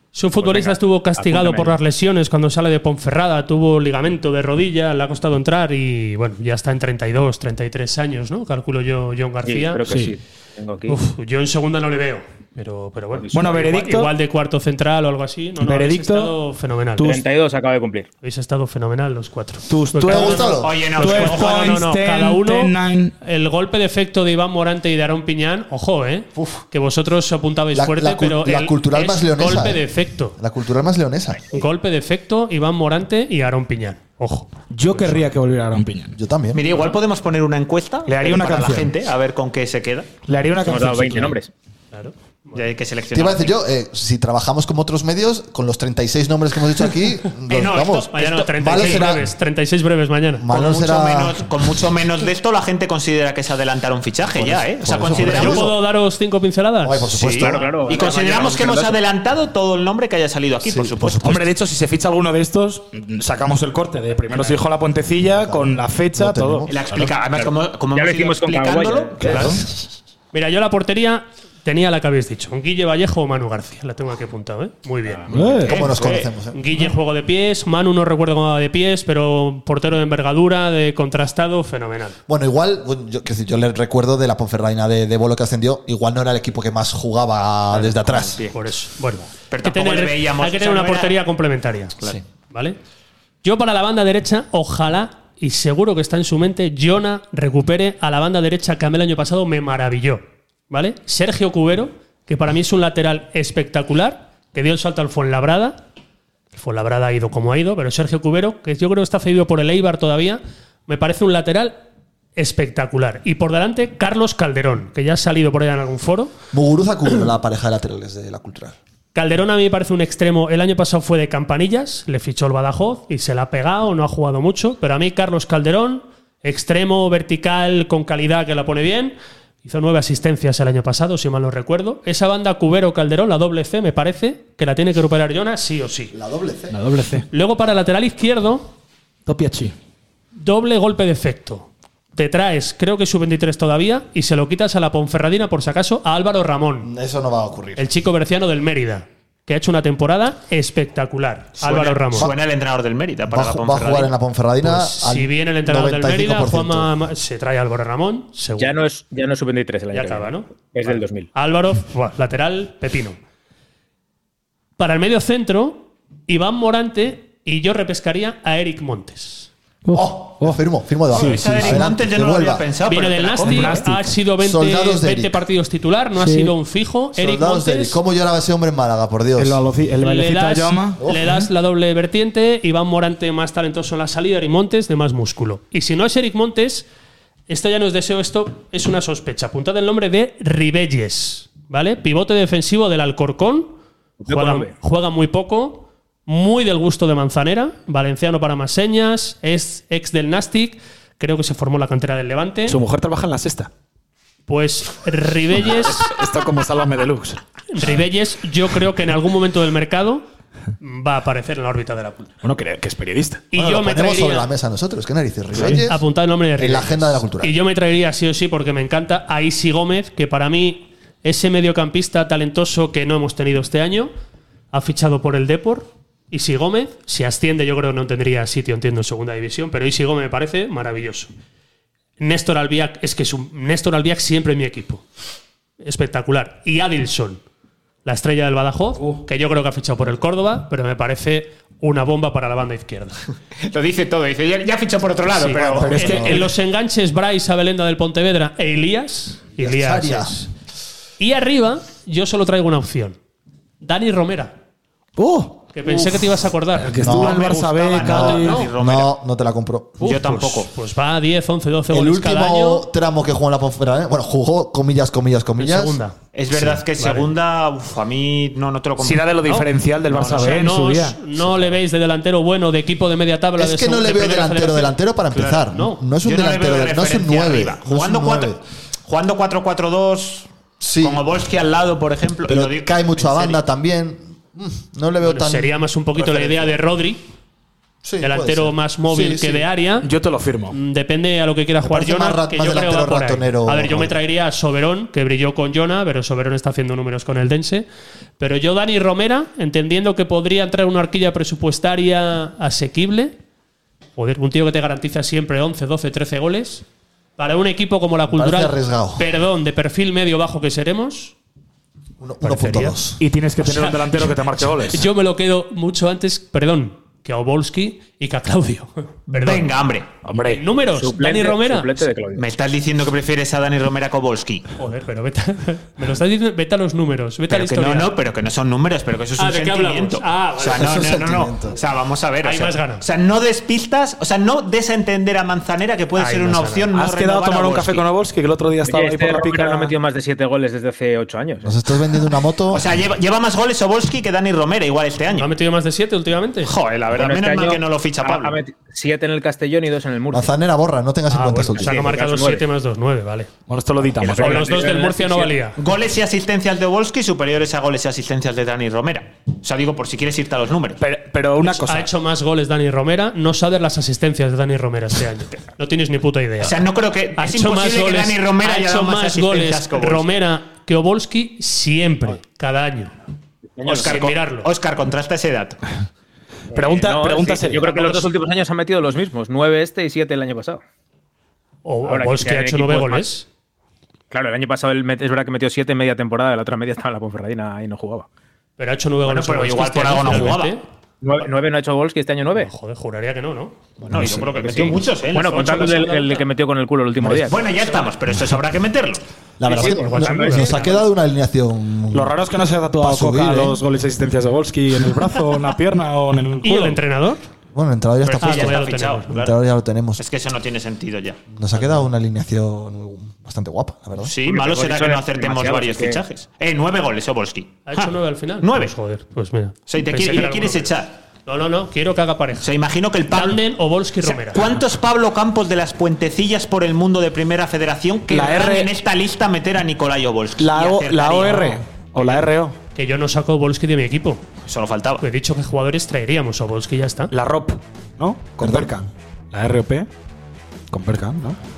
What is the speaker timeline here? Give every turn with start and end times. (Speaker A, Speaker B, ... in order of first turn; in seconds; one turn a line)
Speaker A: 0.1-9.9
Speaker B: 0.4-1.8
Speaker B: 9.4-11.0
Speaker C: 9.9-10.2
Speaker A: 10.9-17.2
Speaker B: 13.2-13.8
Speaker C: 13.3-14.1
Speaker C: 15.6-16.4
Speaker B: 17.0-18.1
Speaker A: 18.2-30.4
Speaker C: 19.7-23.1
Speaker D: 20.1-20.9
Speaker E: 20.6-21.8
Speaker D: 26.4-26.6
Speaker D: 27.7-31.5
Speaker A: 31.5-35.2
Speaker C: 34.7-36.2
Speaker D: 36.1-36.6
Speaker E: 36.5-40.1
Speaker C: 38.1-38.9
Speaker C: 40.3-41.4
Speaker B: 40.6-41.5
Speaker A: 41.9-42.6
Speaker E: 42.5-43.5
Speaker D: 43.1-49.3
Speaker E: 47.5-49.1
Speaker A: 48.1-50.5
Speaker D: 50.4-51.4
Speaker E: 50.5-55.7
Speaker D: 54.4-55.8
Speaker A: 55.2-57.1
Speaker D: 56.8-57.7
Speaker E: 57.2-61.5
Speaker B: 57.4-59.0
Speaker C: 61.2-67.1
Speaker D: 65.3-66.7
Speaker E: 66.7-69.4
Speaker B: 67.3-69.6
Speaker C: 69.2-69.6
Speaker A: 70.3-75.8
Speaker B: 75.1-75.6
Speaker C: 75.3-75.7
Speaker D: 75.7-76.6
Speaker E: 75.7-76.3
Speaker A: 76.5-82.2
Speaker D: 82.3-88.4
Speaker E: 87.7-88.6
Speaker A: 88.5-92.0
Speaker E: 89.5-91.2
Speaker A: 92.5-92.8
Speaker A: 93.4-105.8
Speaker A: 106.5-111.8
Speaker A: 112.4-116.3
Speaker D: 116.5-118.8
Speaker A: 119.1-136.2
Speaker D: 136.1-136.8
Speaker C: 136.7-137.3
Speaker A: 137.3-138.7
Speaker C: 139.3-139.8
Speaker A: 140.4-146.9
Speaker D: 146.8-147.9
Speaker A: 147.8-152.3
Speaker E: 151.6-154.1
Speaker D: 153.3-156.9
Speaker A: 154.6-158.8
Speaker B: 158.6-161.3
Speaker A: 159.9-160.5
Speaker A: 161.3-163.2
Speaker A: 164.8-169.5
Speaker C: 169.8-170.6
Speaker D: 169.9-172.7
Speaker E: 171.1-173.8
Speaker C: 171.2-171.9
Speaker A: 172.9-178.0
Speaker C: 173.4-174.1
Speaker D: 174.4-175.4
Speaker C: 176.2-176.6
Speaker D: 177.2-179.6
Speaker C: 179.4-181.5
Speaker A: 180.0-186.8
Speaker D: 181.0-181.4
Speaker A: 187.5-193.8
Speaker B: 194.2-194.7
Speaker A: 194.3-202.8
Speaker C: 202.7-203.7
Speaker A: 204.5-206.1
Speaker C: 205.6-207.4
Speaker A: 207.7-210.2
Speaker A: 210.8-212.3
Speaker C: 212.4-213.4
Speaker A: 213.5-214.5
Speaker D: 213.6-216.1
Speaker A: 215.6-224.1
Speaker D: 216.6-217.6
Speaker A: 224.7-231.3
Speaker A: 232.2-235.0
Speaker A: 235.8-237.4
Speaker A: 238.1-243.2
Speaker E: 243.6-245.9
Speaker A: 245.3-250.5
Speaker D: 245.7-246.4
Speaker C: 245.8-246.5
Speaker D: 249.6-250.4
Speaker A: 251.2-253.2
Speaker A: 253.8-254.6
Speaker C: 255.2-258.6
Speaker A: 255.7-257.0
Speaker D: 257.0-260.5
Speaker E: 257.1-259.1
Speaker A: 258.1-258.7
Speaker E: 260.0-260.7
Speaker A: 260.7-262.9
Speaker D: 261.9-266.0
Speaker A: 265.6-267.3
Speaker E: 266.3-269.3
Speaker C: 269.0-271.6
Speaker A: 269.5-276.0
Speaker D: 273.6-278.6
Speaker E: 276.2-280.5
Speaker D: 280.8-281.3
Speaker E: 281.0-283.6
Speaker D: 282.5-286.8
Speaker A: 285.2-287.2
Speaker D: 288.0-289.6
Speaker A: 288.2-290.1
Speaker C: 290.0-290.8
Speaker A: 290.7-297.9
Speaker D: 291.8-294.2
Speaker A: 298.4-303.4
Speaker A: 304.2-306.8
Speaker A: 307.4-311.3
Speaker D: 308.3-309.2
Speaker D: 312.2-313.2
Speaker A: 312.4-313.0
Speaker C: 313.2-315.1
Speaker A: 313.6-319.7
Speaker E: 319.3-320.1
Speaker C: 320.2-320.6
Speaker A: 320.5-322.1
Speaker B: 320.8-322.4
Speaker E: 322.4-324.7
Speaker A: 324.8-328.1
Speaker E: 327.5-338.0
Speaker A: 329.4-331.1
Speaker D: 330.6-331.8
Speaker A: 332.4-333.0
Speaker A: 336.2-336.9
Speaker C: 336.9-339.9
Speaker B: 338.8-341.8
Speaker D: 341.6-342.9
Speaker E: 342.7-345.5
Speaker A: 345.4-346.7
Speaker E: 346.6-348.6
Speaker B: 347.1-350.6
Speaker D: 350.3-352.1
Speaker A: 351.3-353.5
Speaker B: 351.8-352.7
Speaker C: 353.7-354.8
Speaker B: 354.2-355.6
Speaker A: 354.2-355.8
Speaker E: 355.8-361.0
Speaker C: 361.0-362.1
Speaker A: 361.7-366.8
Speaker E: 366.6-370.3
Speaker A: 367.4-373.1
Speaker B: 373.8-374.2
Speaker E: 373.8-375.8
Speaker A: 373.9-374.7
Speaker B: 376.7-380.8
Speaker C: 376.7-378.2
Speaker A: 381.9-383.5
Speaker B: 382.1-383.3
Speaker B: 384.3-388.3
Speaker A: 388.8-390.8
Speaker E: 389.2-390.8
Speaker B: 391.2-392.7
Speaker A: 392.6-393.8
Speaker D: 394.0-394.5
Speaker E: 394.1-396.1
Speaker B: 394.7-397.5
Speaker A: 395.4-396.4
Speaker E: 397.5-399.2
Speaker A: 397.6-398.0
Speaker D: 399.6-402.4
Speaker A: 399.7-401.0
Speaker B: 399.7-401.0
Speaker C: 402.1-407.0
Speaker D: 403.0-403.8
Speaker A: 406.6-407.4
Speaker D: 407.7-410.2
Speaker E: 408.2-409.6
Speaker A: 408.4-409.4
Speaker E: 410.2-411.4
Speaker D: 411.5-414.3
Speaker E: 414.2-418.9
Speaker B: 414.5-416.2
Speaker A: 417.9-420.9
Speaker E: 419.9-421.1
Speaker A: 421.5-422.7
Speaker E: 422.6-423.6
Speaker A: 423.3-424.7
Speaker E: 424.2-432.5
Speaker C: 428.3-428.9
Speaker C: 430.6-432.8
Speaker A: 432.9-434.4
Speaker E: 434.6-435.2
Speaker A: 435.2-437.3
Speaker C: 437.3-440.1
Speaker C: 440.9-441.6